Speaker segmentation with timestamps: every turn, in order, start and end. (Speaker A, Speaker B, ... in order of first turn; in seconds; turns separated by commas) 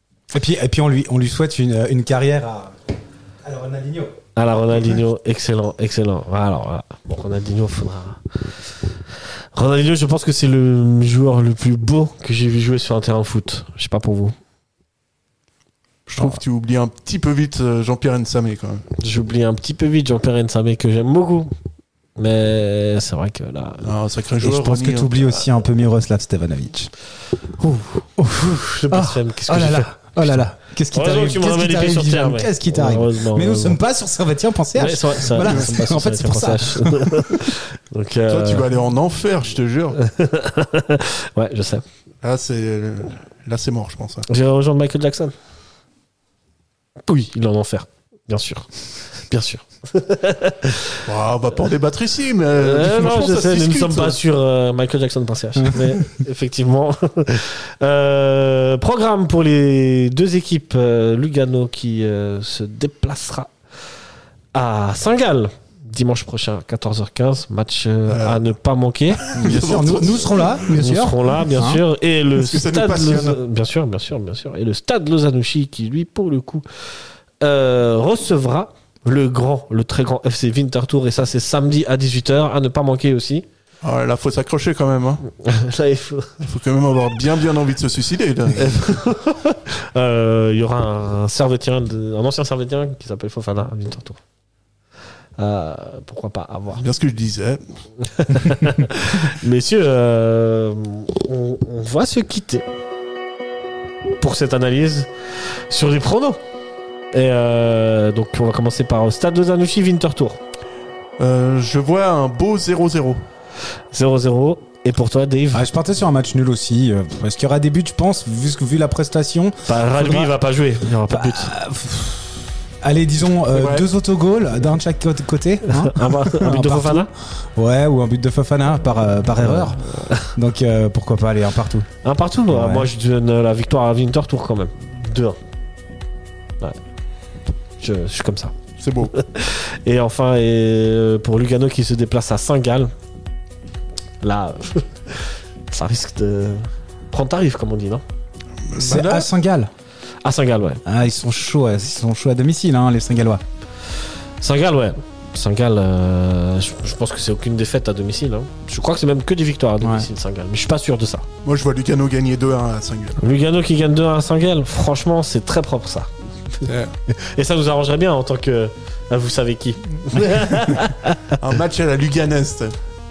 Speaker A: 0.3-2.7, Speaker A: 3.4-4.2, Speaker B: 4.4-8.6, Speaker B: 9.5-14.3, Speaker C: 16.1-18.9, Speaker B: 19.0-21.5, Speaker B: 22.2-23.9, Speaker C: 23.8-25.3, Speaker A: 24.4-26.9, Speaker B: 27.6-33.8, Speaker A: 28.2-37.5, Speaker B: 34.8-38.7, Speaker C: 35.4-35.7, Speaker C: 38.3-40.0, Speaker B: 40.0-41.8, Speaker C: 42.2-44.3, Speaker B: 44.3-45.3, Speaker B: 47.1-51.0, Speaker C: 51.0-54.2, Speaker B: 52.6-63.5, Speaker A: 55.6-56.0, Speaker B: 64.5-69.4, Speaker C: 68.1-68.4, Speaker C: 69.2-70.6, Speaker A: 69.3-71.8, Speaker B: 70.8-83.5, Speaker C: 72.3-73.4, Speaker C: 83.8-85.2, Speaker B: 85.3-86.4, Speaker C: 86.4-88.8, Speaker B: 88.6-94.2, Speaker B: 95.4-96.8, Speaker C: 96.8-97.6, Speaker B: 98.0-102.7, Speaker B: 104.2-106.4, Speaker B: 107.1-110.4, Speaker C: 111.2-113.2, Speaker B: 113.9-115.7, Speaker A: 115.5-120.3, Speaker B: 119.7-121.5, Speaker A: 121.1-131.9, Speaker C: 123.5-123.9, Speaker B: 125.6-127.1, Speaker B: 129.5-130.3, Speaker B: 132.0-135.4, Speaker A: 132.5-132.9, Speaker B: 137.8-142.9, Speaker C: 138.8-139.1, Speaker B: 144.2-148.0, Speaker C: 148.7-149.3, Speaker A: 148.8-149.7, Speaker B: 150.2-150.8, Speaker A: 150.9-153.4, Speaker B: 154.4-161.3, Speaker A: 159.8-160.1, Speaker C: 161.4-163.2, Speaker B: 163.2-171.4, Speaker C: 166.7-166.9, Speaker C: 171.3-172.8